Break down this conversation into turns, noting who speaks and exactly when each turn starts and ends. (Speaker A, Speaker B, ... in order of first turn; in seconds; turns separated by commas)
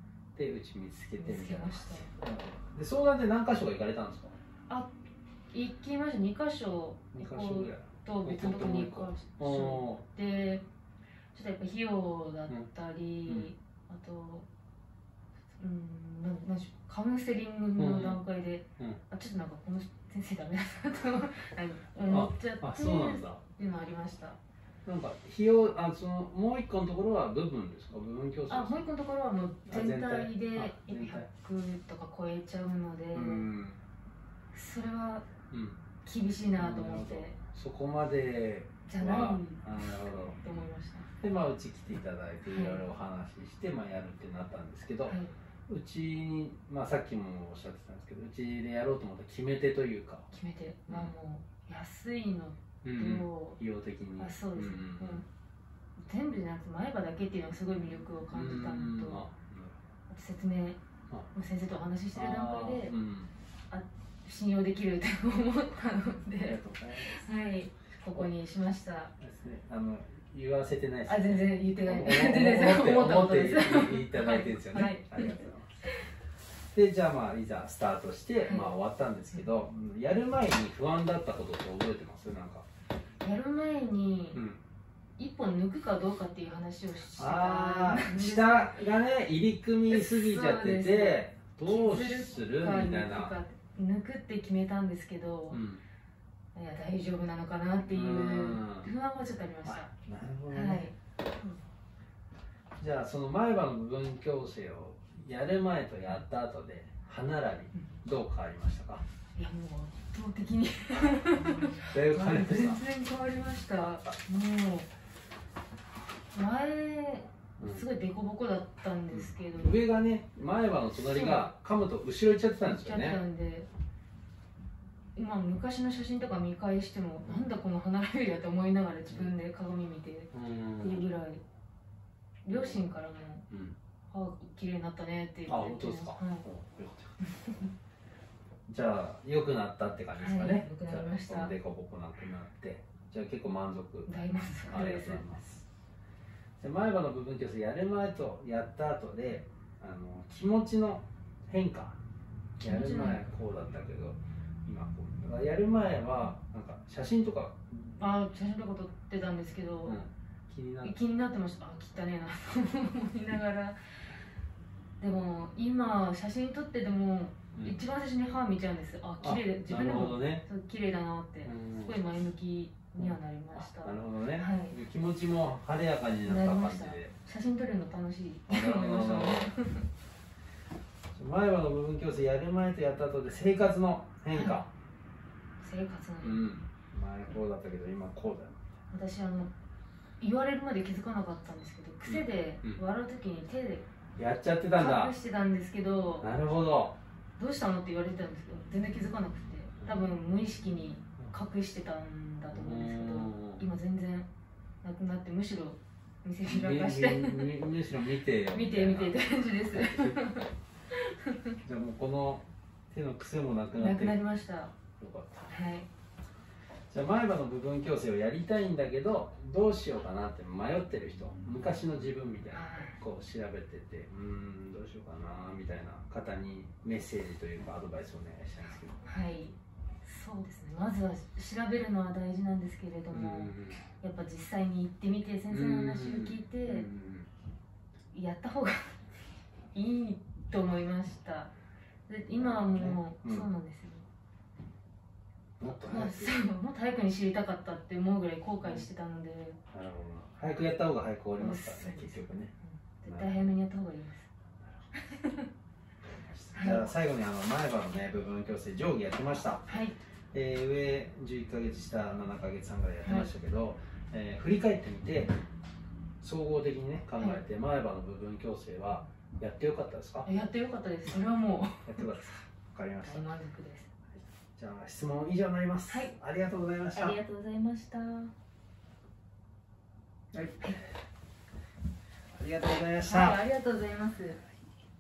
Speaker A: 0.3-4.4, Speaker B: 1.2-2.1, Speaker B: 5.5-10.7, Speaker A: 7.2-10.1, Speaker B: 11.3-14.5, Speaker B: 15.6-24.4, Speaker A: 17.8-18.2, Speaker A: 22.1-23.4, Speaker A: 24.9-28.9, Speaker B: 28.5-33.5, Speaker A: 29.7-31.3, Speaker A: 33.1-33.8, Speaker B: 34.5-35.3, Speaker A: 35.5-35.8, Speaker B: 36.0-37.4, Speaker A: 36.5-40.4, Speaker B: 38.9-41.1, Speaker A: 41.2-45.2, Speaker B: 42.5-42.8, Speaker B: 45.1-45.3, Speaker A: 45.7-50.3, Speaker B: 50.3-53.6, Speaker A: 50.9-51.1, Speaker A: 52.8-55.2, Speaker B: 54.2-55.3, Speaker B: 56.0-59.3, Speaker A: 58.3-59.8, Speaker B: 60.1-60.8, Speaker B: 61.3-63.0, Speaker A: 62.1-63.3, Speaker B: 63.7-69.1, Speaker A: 66.4-67.1, Speaker A: 69.2-75.8, Speaker B: 71.1-75.9, Speaker A: 76.7-82.7, Speaker B: 78.5-78.7, Speaker B: 83.2-84.4, Speaker A: 84.3-84.6, Speaker B: 85.2-88.8, Speaker A: 87.2-93.3, Speaker B: 89.9-95.6, Speaker A: 95.5-95.8, Speaker B: 96.5-99.9, Speaker A: 97.9-98.9, Speaker A: 99.7-100.9, Speaker B: 100.5-101.6, Speaker A: 102.8-109.0, Speaker B: 109.4-114.9, Speaker A: 111.9-112.8, Speaker B: 116.3-119.8, Speaker A: 117.6-117.8, Speaker A: 119.1-123.2, Speaker B: 121.0-121.5, Speaker B: 122.7-123.7, Speaker B: 125.2-131.4, Speaker A: 130.3-131.0, Speaker B: 132.4-133.5, Speaker A: 132.5-132.8, Speaker A: 133.5-133.8, Speaker B: 134.1-136.4, Speaker A: 135.5-137.2, Speaker B: 137.2-137.7, Speaker A: 138.7-144.1, Speaker B: 140.2-141.5, Speaker B: 144.1-145.4, Speaker A: 144.7-145.7, Speaker A: 146.6-152.0, Speaker B: 152.6-153.3, Speaker A: 152.6-158.0, Speaker B: 158.0-160.0, Speaker A: 159.9-161.0, Speaker B: 160.8-163.8, Speaker B: 165.0-174.8, Speaker A: 167.5-167.8, Speaker A: 169.2-170.5, Speaker A: 171.4-171.9, Speaker A: 173.0-177.1, Speaker B: 176.2-179.9, Speaker A: 178.5-179.4, Speaker A: 181.1-184.7, Speaker B: 184.3-184.6, Speaker B: 185.6-186.4, Speaker A: 186.2-188.7, Speaker B: 188.9-189.5, Speaker B: 190.2-193.9, Speaker A: 192.1-192.8, Speaker A: 194.2-195.2, Speaker B: 194.8-196.3, Speaker A: 196.2-197.0, Speaker B: 197.4-204.3, Speaker A: 202.5-203.6, Speaker B: 204.8-207.6, Speaker A: 206.4-210.2, Speaker B: 208.5-211.6, Speaker A: 211.6-214.2, Speaker B: 213.8-214.7, Speaker A: 215.0-215.5, Speaker B: 215.5-215.9, Speaker A: 216.9-229.0, Speaker B: 222.5-223.0, Speaker B: 229.0-236.9, Speaker A: 233.1-233.8, Speaker A: 235.5-237.3, Speaker B: 238.1-239.0, Speaker B: 239.7-241.5, Speaker B: 242.1-244.1, Speaker A: 242.3-243.5, Speaker A: 245.6-246.4, Speaker B: 245.6-249.6, Speaker A: 249.7-252.5, Speaker B: 251.4-254.3, Speaker A: 253.1-253.4, Speaker A: 254.6-254.9, Speaker B: 255.0-255.5, Speaker A: 256.1-259.7, Speaker B: 256.5-256.9, Speaker B: 259.7-260.0, Speaker A: 260.3-265.3, Speaker B: 263.0-263.3, Speaker A: 266.2-270.3, Speaker B: 267.2-267.4, Speaker B: 270.3-272.3, Speaker A: 271.9-273.3, Speaker B: 273.0-273.9, Speaker A: 274.1-277.2, Speaker B: 275.9-276.1, Speaker B: 276.9-278.3, Speaker A: 280.3-280.9, Speaker A: 282.3-283.4, Speaker B: 283.0-284.4